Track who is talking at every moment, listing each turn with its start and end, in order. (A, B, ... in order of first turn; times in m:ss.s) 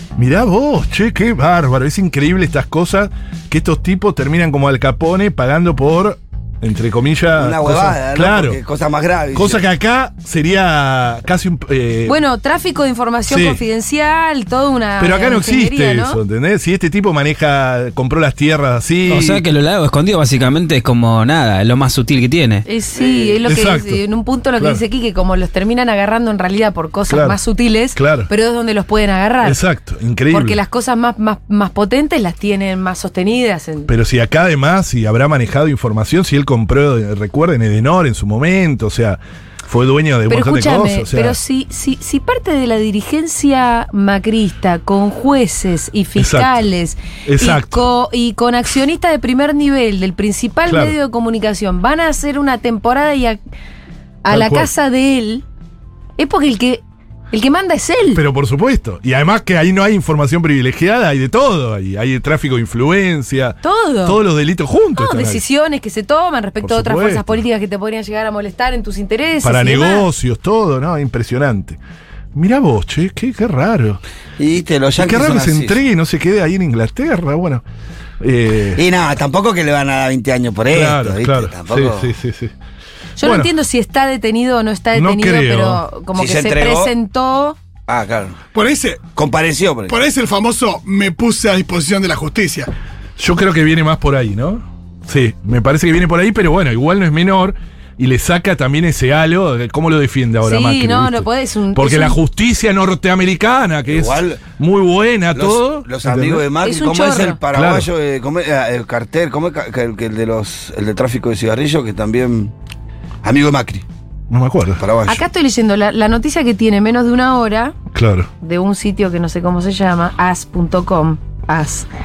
0:00.2-0:08.6 A
0:07.4-0:09.6 B
0:09.3-0:12.2 A
0:12.1-0:16.2 C
0:13.3-0:13.6 A
0:15.0-0:19.4 A
0:19.1-0:22.6 D
0:22.6-0:29.6 C
0:23.0-0:23.4 B
0:23.4-0:24.0 A
0:24.6-0:24.8 A
0:27.1-0:27.4 A
0:28.0-0:28.3 A
0:29.4-0:30.6 A
0:30.3-0:33.9 C
0:33.9-0:41.4 A
0:40.3-0:53.4 C
0:46.2-0:46.6 A
0:47.3-0:47.8 A
0:50.7-0:51.0 A
0:54.2-0:55.4 C
0:54.3-0:54.7 A
0:56.2-0:58.2 C
0:58.1-1:05.4 A
1:03.6-1:04.2 C
1:05.0-1:10.1 C
1:06.6-1:07.4 A
1:09.4-1:11.8 A
1:12.3-1:14.0 A
1:14.4-1:15.8 B
1:15.0-1:17.6 A
1:18.2-1:18.8 A
1:18.8-1:22.1 B
1:20.7-1:22.5 A
1:23.2-1:27.6 C
1:23.2-1:23.5 A
1:25.0-1:25.8 A
1:26.2-1:26.9 B
1:27.9-1:28.4 B
1:28.5-1:29.0 E
1:29.2-1:30.0 B
1:29.9-1:32.7 E
1:33.2-1:46.5 A
1:40.4-1:42.2 C
1:43.9-1:44.4 B
1:45.4-1:52.5 B
1:46.6-1:47.4 C
1:47.5-1:47.9 A
1:53.2-1:53.8 B
1:54.3-1:54.8 A
1:54.8-1:55.2 B
1:55.1-1:57.8 C
1:57.9-1:58.3 A
1:58.4-2:01.9 C